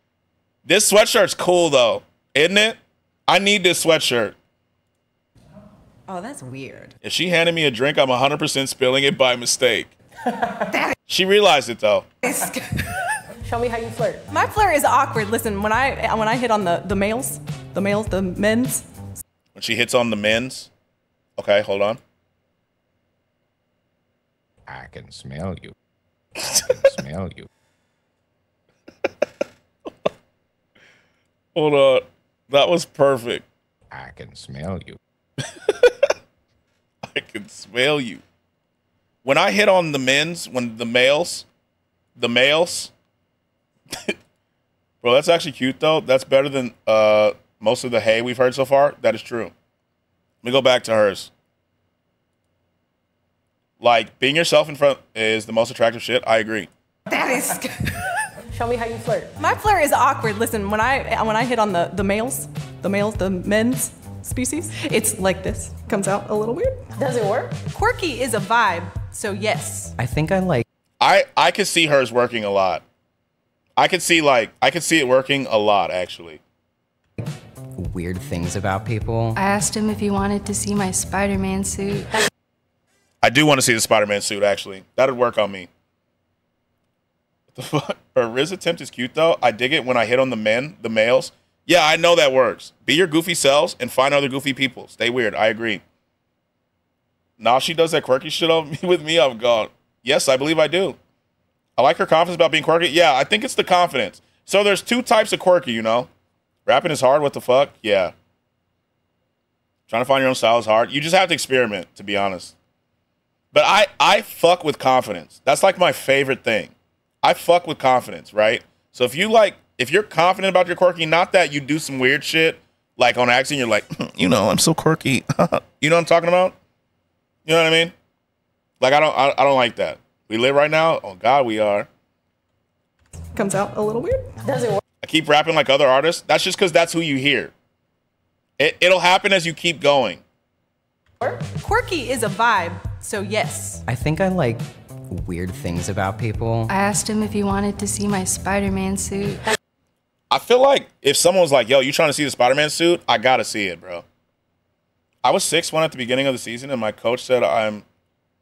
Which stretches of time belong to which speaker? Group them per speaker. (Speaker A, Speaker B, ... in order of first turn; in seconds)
Speaker A: 0.7-4.3, 7.0-9.9, 11.1-12.1, 19.5-20.7, 21.4-22.0, 31.5-33.4, 37.0-38.2, 39.2-41.4, 42.2-42.9, 45.0-49.5, 50.4-51.3, 53.8-56.7, 71.0-72.8, 73.8-76.4, 83.2-85.7, 87.5-95.8, 97.4-101.0, 101.8-106.1, 106.7-108.1, 109.9-112.5, 113.5-116.7, 117.2-126.5, 127.5-127.9, 128.8-131.9, 135.0-137.5, 138.6-140.2, 150.3-154.0, 155.2-157.8
Speaker B: 6.1-6.9, 70.0-70.7, 77.7-79.4, 143.9-146.7
Speaker C: 13.4-14.2, 58.5-59.3, 67.0-67.5, 134.4-134.8
Speaker D: 14.3-18.8, 59.4-66.8, 67.7-70.0, 133.3-134.3, 141.6-143.8
Speaker E: 24.7-25.7, 26.4-27.5, 33.9-35.0
Speaker F: 79.3-82.1, 146.7-149.4